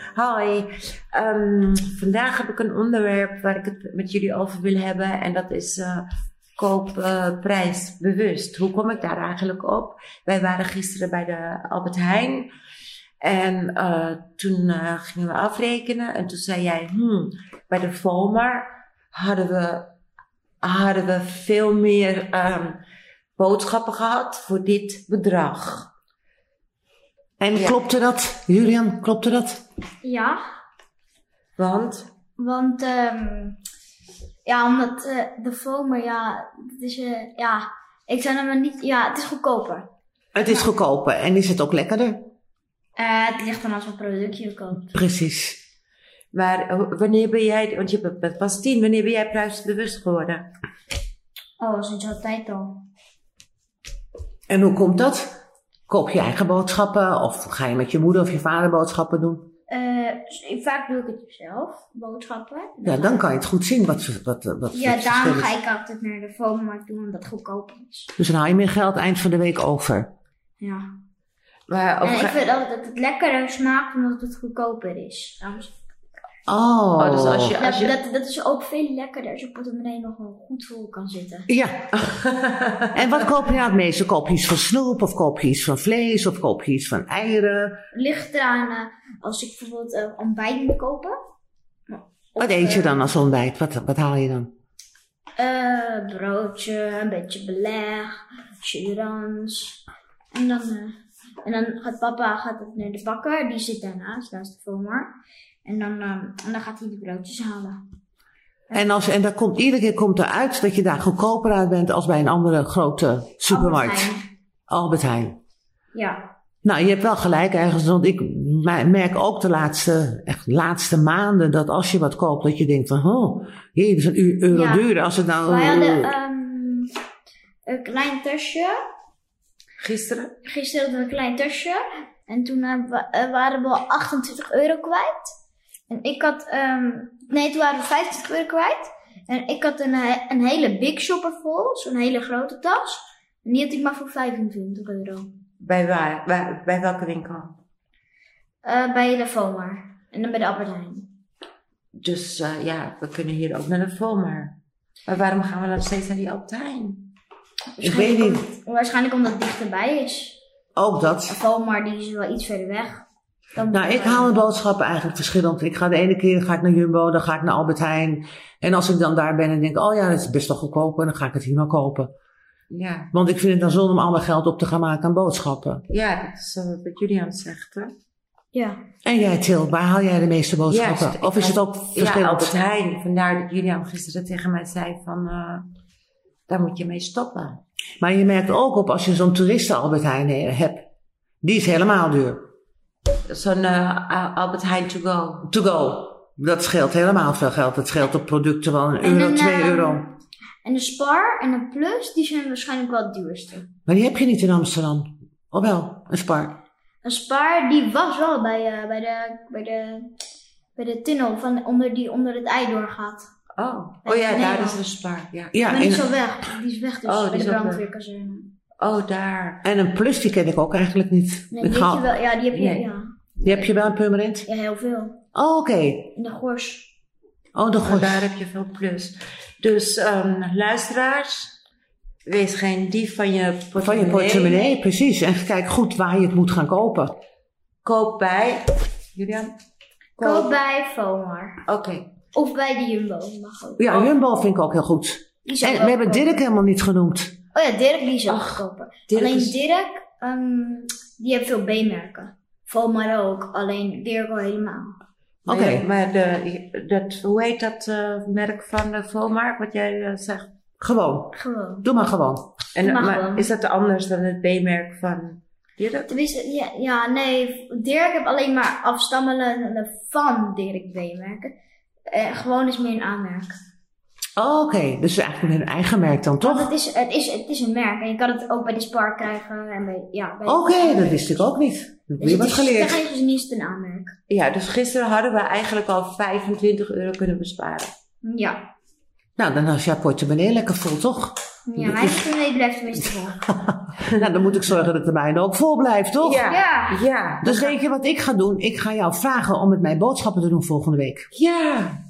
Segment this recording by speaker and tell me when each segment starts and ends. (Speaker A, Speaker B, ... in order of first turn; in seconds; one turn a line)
Speaker A: 0.1-12.5
Speaker A: 13.2-19.9
Speaker A: 20.6-22.8
Speaker A: 23.4-25.9
Speaker B: 27.4-29.6
Speaker A: 27.5-27.8
Speaker C: 30.0-30.4
Speaker A: 31.6-32.1
Speaker C: 32.4-33.6
Speaker C: 34.5-39.9
Speaker B: 40.3-42.3
Speaker C: 40.4-40.6
Speaker C: 43.0-44.9
Speaker B: 44.9-45.6
Speaker A: 46.3-50.5
Speaker C: 51.6-52.9
Speaker B: 54.5-55.3
Speaker B: 55.9-59.5
Speaker C: 59.7-63.3
Speaker B: 62.8-65.5
Speaker C: 64.7-68.1
Speaker B: 68.2-70.1
Speaker C: 70.6-70.9
Speaker A: 71.7-72.4
Speaker C: 72.0-75.7
Speaker B: 76.5-77.5
Speaker A: 77.0-78.0
Speaker C: 77.6-81.5
Speaker B: 81.5-81.9
Speaker A: 82.0-83.2
Speaker B: 82.9-87.8
Speaker C: 87.9-91.2
Speaker C: 91.9-93.1
Speaker B: 92.4-94.5
Speaker C: 95.4-99.8
Speaker C: 100.3-105.1
Speaker C: 105.7-107.8
Speaker B: 108.7-114.1
Speaker C: 113.5-114.2
Speaker B: 114.7-115.4
Speaker C: 115.9-116.3
Speaker B: 116.6-126.1
Speaker C: 124.5-124.9
Speaker C: 125.5-126.9
Speaker C: 127.7-128.8
Speaker A: 129.8-130.3
Speaker C: 130.4-135.3
Speaker C: 135.9-145.3
Speaker A: 145.6-147.6
Speaker C: 148.6-151.1
Speaker A: 152.0-154.5
Speaker A: 155.1-157.1
Speaker C: 157.8-160.4
Speaker B: 157.8-158.5
Speaker B: 160.8-161.4
Speaker C: 161.3-164.3
Speaker B: 163.7-172.1
Speaker A: 172.7-173.1
Speaker B: 173.1-175.8
Speaker A: 175.9-177.9
Speaker C: 178.5-178.8
Speaker B: 179.1-182.6
Speaker A: 180.7-185.7
Speaker A: 186.5-187.6
Speaker B: 188.0-190.8
Speaker B: 191.4-192.4
Speaker A: 193.3-195.5
Speaker B: 195.4-200.1
Speaker C: 199.0-200.1
Speaker C: 200.6-203.7
Speaker B: 203.9-206.6
Speaker C: 207.0-210.1
Speaker C: 210.8-213.3
Speaker A: 213.6-215.6
Speaker C: 214.1-214.8
Speaker B: 215.5-216.1
Speaker C: 215.7-218.5
Speaker A: 217.1-217.8
Speaker A: 218.8-219.6
Speaker B: 219.6-222.0
Speaker C: 221.5-223.7
Speaker A: 222.5-222.9
Speaker B: 223.4-224.5
Speaker C: 224.5-225.2
Speaker B: 225.3-226.1
Speaker C: 226.2-226.9
Speaker B: 227.6-228.3
Speaker A: 227.8-231.5
Speaker A: 232.3-234.7
Speaker B: 233.8-237.1
Speaker A: 237.8-239.6
Speaker A: 240.2-240.5
Speaker C: 240.2-241.6
Speaker A: 241.7-242.1
Speaker C: 242.3-244.0
Speaker B: 243.8-247.3
Speaker C: 245.5-246.4
Speaker C: 247.5-255.0
Speaker A: 248.3-249.6
Speaker B: 255.5-255.8
Speaker A: 255.5-260.5
Speaker B: 260.8-262.5
Speaker C: 261.4-261.9
Speaker A: 262.8-266.1
Speaker C: 262.8-263.5
Speaker C: 266.1-271.5
Speaker C: 272.1-273.5
Speaker B: 274.4-276.7
Speaker C: 276.4-281.4
Speaker B: 280.5-283.0
Speaker C: 282.2-284.1
Speaker A: 284.3-287.9
Speaker C: 288.2-288.7
Speaker B: 289.4-292.2
Speaker C: 291.7-293.5
Speaker B: 293.4-296.5
Speaker A: 294.0-294.4
Speaker A: 296.2-297.8
Speaker C: 296.5-297.0
Speaker B: 297.4-301.3
Speaker A: 301.3-302.0